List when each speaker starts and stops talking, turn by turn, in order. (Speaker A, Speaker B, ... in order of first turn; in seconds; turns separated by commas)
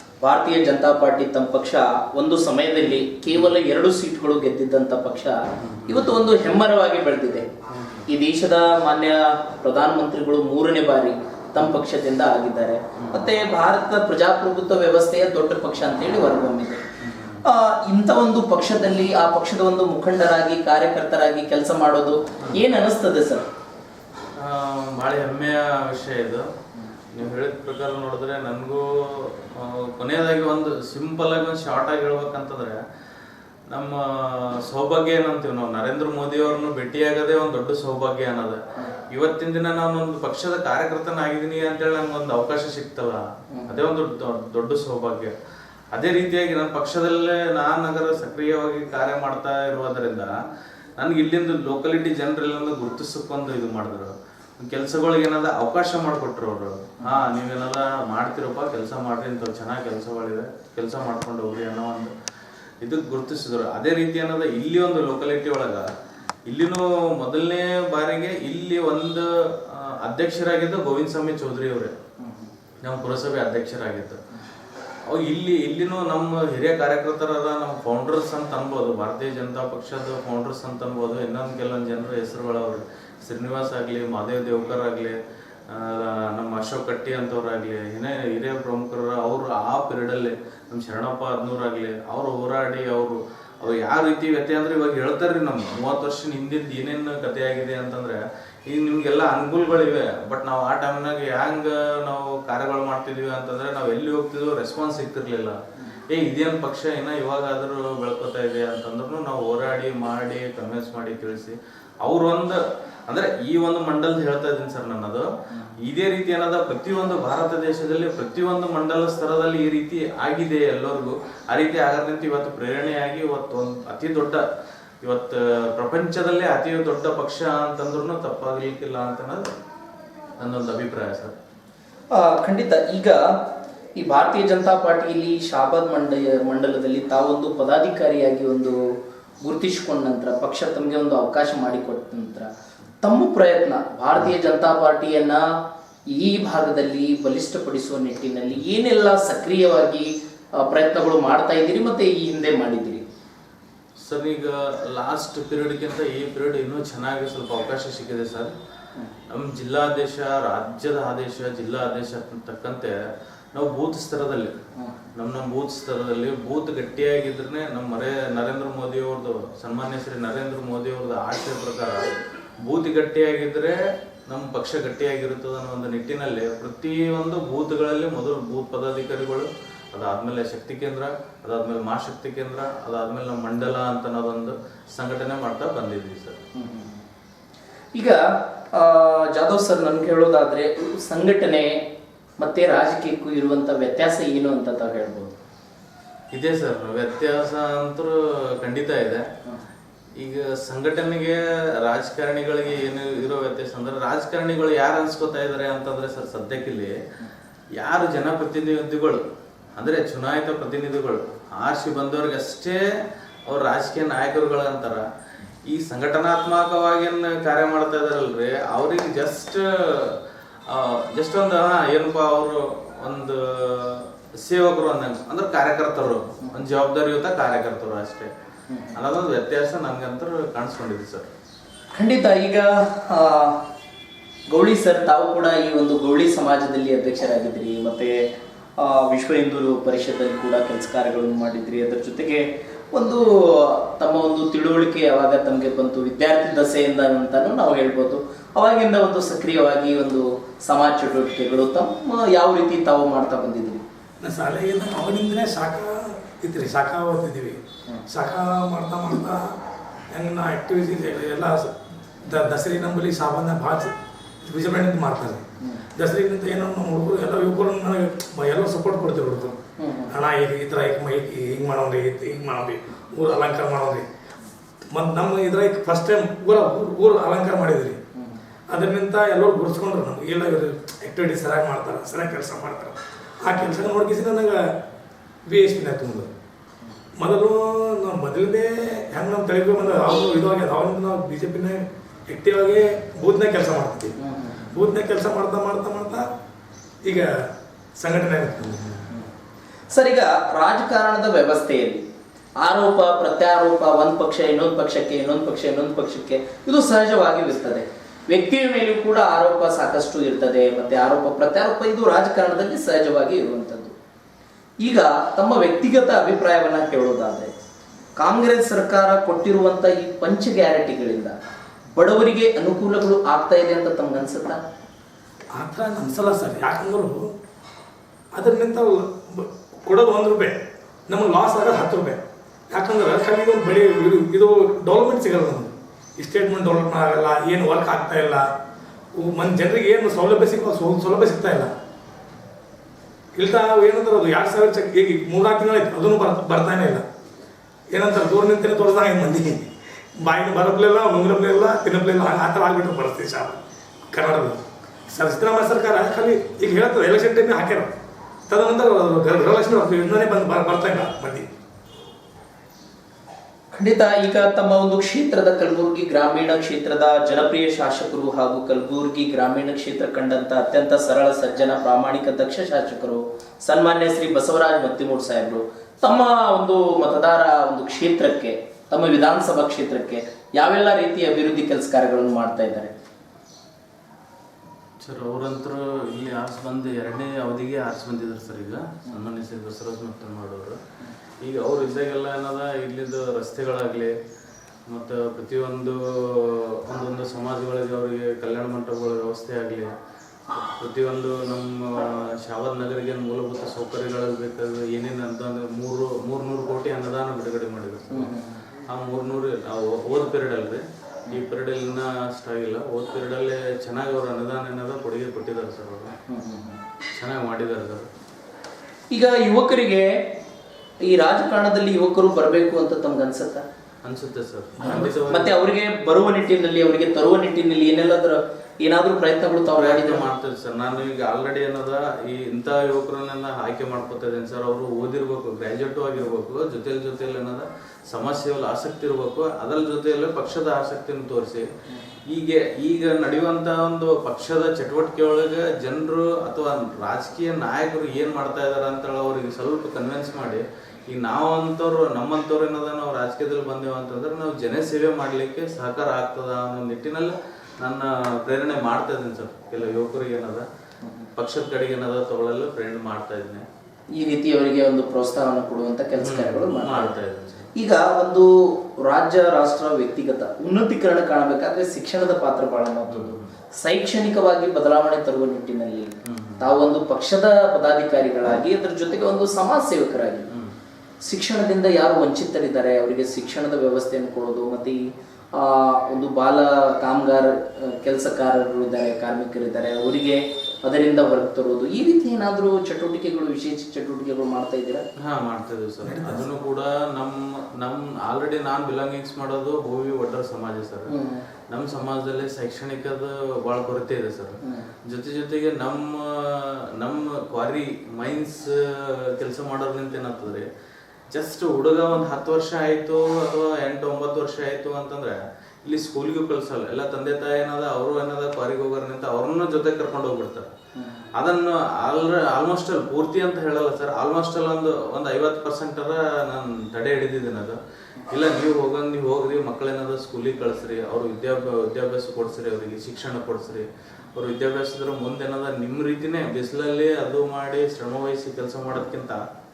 Speaker A: 0.2-5.3, Speaker B: 5.6-6.2, Speaker A: 5.9-7.5, Speaker B: 7.7-8.1, Speaker A: 8.1-16.8, Speaker B: 13.0-13.2, Speaker B: 17.0-17.4, Speaker A: 17.4-23.5, Speaker B: 24.4-26.5, Speaker B: 27.1-32.8, Speaker B: 33.7-38.6, Speaker B: 39.1-45.3, Speaker B: 45.9-50.3, Speaker B: 51.0-54.1, Speaker B: 54.6-62.1, Speaker B: 62.8-65.9, Speaker B: 66.5-71.9, Speaker A: 72.2-72.5, Speaker B: 72.8-74.2, Speaker B: 75.0-85.1, Speaker B: 85.7-105.6, Speaker B: 106.1-115.2, Speaker B: 115.8-124.4, Speaker B: 125.0-129.5, Speaker B: 130.4-131.3, Speaker A: 132.1-133.2, Speaker A: 134.0-138.8, Speaker A: 139.4-142.5, Speaker A: 143.0-145.4, Speaker A: 146.1-153.0, Speaker B: 154.0-158.5, Speaker B: 159.3-162.9, Speaker B: 163.5-164.6, Speaker B: 165.2-172.1, Speaker B: 172.6-186.4, Speaker A: 186.6-187.0, Speaker A: 187.9-188.2, Speaker A: 188.7-191.8, Speaker A: 192.4-195.4, Speaker B: 196.3-199.2, Speaker B: 200.2-206.9, Speaker B: 207.8-209.2, Speaker B: 209.8-212.8, Speaker B: 213.5-215.0, Speaker B: 215.7-228.3, Speaker A: 228.7-228.9, Speaker B: 228.9-231.3, Speaker A: 231.9-233.6, Speaker A: 234.5-238.2, Speaker A: 238.8-253.8, Speaker C: 254.2-259.6, Speaker C: 260.1-269.6, Speaker A: 269.8-270.1, Speaker C: 270.1-274.1, Speaker C: 274.9-278.0, Speaker C: 278.7-284.8, Speaker C: 285.5-286.3, Speaker C: 287.2-294.1, Speaker A: 294.2-294.7, Speaker C: 294.7-296.3, Speaker C: 297.0-299.1, Speaker A: 299.9-302.0, Speaker A: 302.6-313.9, Speaker A: 314.8-317.5, Speaker A: 318.2-321.4, Speaker A: 321.9-324.6, Speaker C: 325.5-327.4, Speaker C: 328.3-338.5, Speaker C: 339.1-341.7, Speaker C: 343.4-347.1, Speaker C: 347.9-353.6, Speaker C: 354.1-357.9, Speaker C: 358.5-361.5, Speaker A: 363.7-382.9, Speaker B: 385.0-390.8, Speaker B: 391.4-394.1, Speaker B: 394.9-399.9, Speaker B: 400.5-408.3, Speaker A: 408.1-408.6, Speaker B: 408.9-416.2, Speaker A: 416.3-416.8, Speaker B: 417.1-418.1, Speaker A: 419.1-420.3, Speaker A: 421.1-423.6, Speaker B: 424.0-425.6, Speaker C: 424.8-425.2, Speaker A: 424.9-430.2, Speaker B: 429.7-441.7, Speaker B: 442.3-460.6, Speaker B: 461.4-463.6, Speaker A: 464.2-467.1, Speaker B: 466.2-467.7, Speaker A: 467.8-468.5, Speaker A: 469.1-480.5, Speaker B: 473.1-473.5, Speaker B: 476.3-476.7, Speaker A: 481.2-485.0, Speaker A: 485.6-495.0, Speaker B: 495.2-501.1, Speaker C: 496.0-496.5, Speaker A: 501.1-501.4, Speaker B: 501.7-510.7, Speaker A: 504.7-504.9, Speaker B: 511.3-520.7, Speaker A: 521.0-521.2, Speaker B: 521.4-527.8, Speaker B: 528.3-539.4